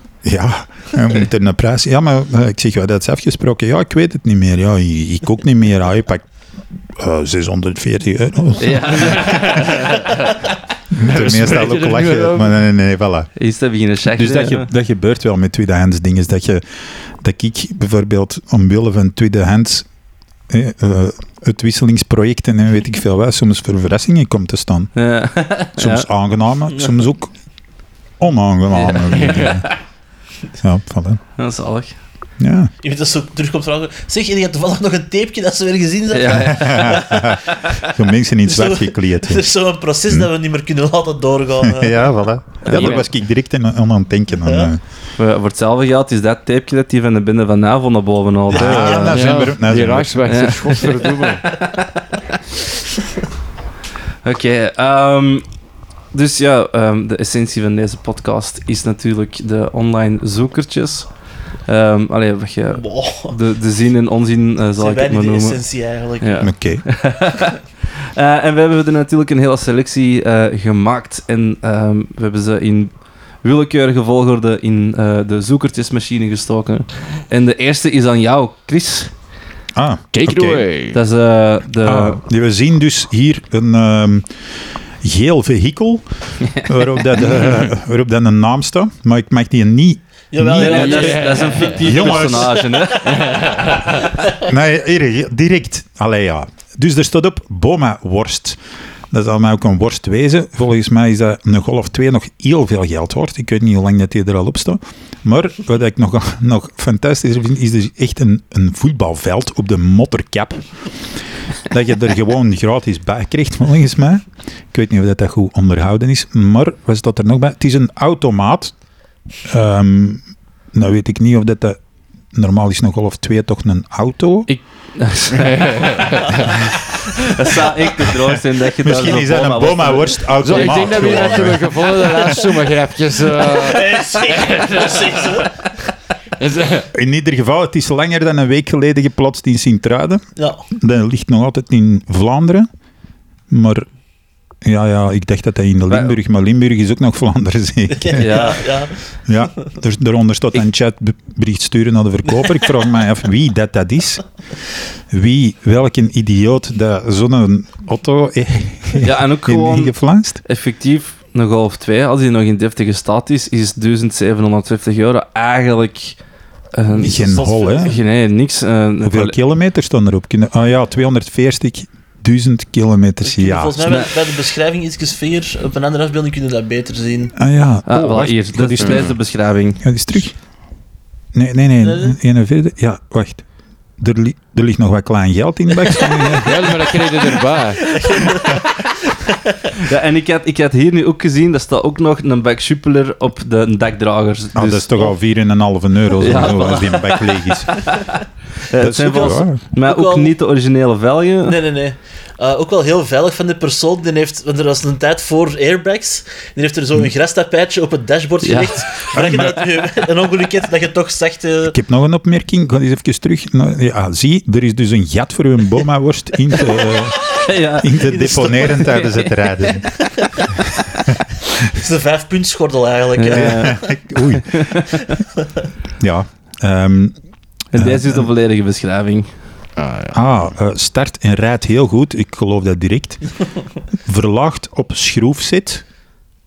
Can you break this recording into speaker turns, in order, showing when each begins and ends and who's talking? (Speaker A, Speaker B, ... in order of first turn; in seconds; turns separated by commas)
Speaker A: 0.2-6.2, Speaker A: 6.9-9.8, Speaker B: 8.6-10.2, Speaker C: 9.2-10.3, Speaker A: 10.9-13.3, Speaker C: 11.0-12.5, Speaker B: 13.4-14.7, Speaker A: 14.1-19.9, Speaker A: 20.5-24.9, Speaker B: 25.0-26.1, Speaker A: 25.8-27.3, Speaker A: 28.2-29.7, Speaker B: 28.7-29.6, Speaker C: 29.1-29.6, Speaker A: 30.6-31.2, Speaker B: 31.4-32.0, Speaker A: 32.4-32.7, Speaker D: 32.8-37.4, Speaker B: 36.1-37.4, Speaker A: 36.3-39.4, Speaker D: 38.5-42.0, Speaker A: 41.6-44.8, Speaker B: 42.6-43.0, Speaker C: 42.7-43.1, Speaker D: 44.5-44.7, Speaker B: 45.2-49.2, Speaker D: 48.5-49.1, Speaker A: 48.5-50.2, Speaker C: 49.0-51.6, Speaker B: 50.3-52.2, Speaker B: 54.2-55.5, Speaker B: 56.1-61.1, Speaker B: 61.7-65.6, Speaker D: 62.8-63.4, Speaker D: 64.8-66.5, Speaker B: 66.2-72.9, Speaker A: 66.4-66.8, Speaker B: 73.4-79.1, Speaker A: 79.8-80.7, Speaker C: 80.1-81.0, Speaker B: 80.9-82.2, Speaker A: 81.8-84.3, Speaker A: 85.0-90.9, Speaker D: 90.3-93.4, Speaker B: 90.6-93.3, Speaker C: 90.6-92.2, Speaker A: 91.8-92.5, Speaker C: 93.0-94.0, Speaker A: 94.4-98.6, Speaker A: 99.1-110.6, Speaker A: 111.7-118.8, Speaker A: 119.5-121.8, Speaker A: 122.3-124.5, Speaker B: 124.5-131.2, Speaker C: 125.3-126.5, Speaker A: 128.8-131.8, Speaker C: 130.4-135.5, Speaker D: 130.9-131.4, Speaker D: 133.4-135.5, Speaker C: 136.4-136.9, Speaker A: 136.9-142.7, Speaker D: 140.4-140.6, Speaker A: 143.5-143.9, Speaker A: 144.6-148.6, Speaker B: 145.9-146.2, Speaker D: 147.9-148.9, Speaker B: 148.1-148.7, Speaker A: 149.3-154.2, Speaker A: 155.1-160.4, Speaker B: 159.0-166.2, Speaker B: 166.7-169.4, Speaker A: 166.9-167.9, Speaker D: 167.2-167.9, Speaker A: 169.0-174.0, Speaker D: 173.2-177.3, Speaker B: 173.8-174.1, Speaker A: 177.4-179.2, Speaker B: 177.9-179.8, Speaker C: 178.8-179.1, Speaker A: 179.8-180.3, Speaker A: 181.3-183.4, Speaker D: 181.8-182.2, Speaker A: 184.0-187.2, Speaker C: 186.4-188.3, Speaker D: 187.8-189.3, Speaker B: 189.7-195.1, Speaker A: 194.6-198.0, Speaker B: 196.2-201.6, Speaker A: 198.8-199.6, Speaker D: 199.1-200.3, Speaker D: 201.4-211.8, Speaker B: 208.4-209.1, Speaker A: 209.1-209.6, Speaker A: 211.7-219.9, Speaker D: 217.2-217.5, Speaker B: 217.3-219.3, Speaker D: 218.1-219.1, Speaker D: 221.6-223.9, Speaker B: 223.2-223.8, Speaker A: 223.3-224.7, Speaker B: 224.5-225.0, Speaker A: 226.0-227.2, Speaker B: 227.7-229.3, Speaker A: 227.7-228.3, Speaker C: 229.8-230.3, Speaker A: 230.1-233.2, Speaker A: 234.1-235.8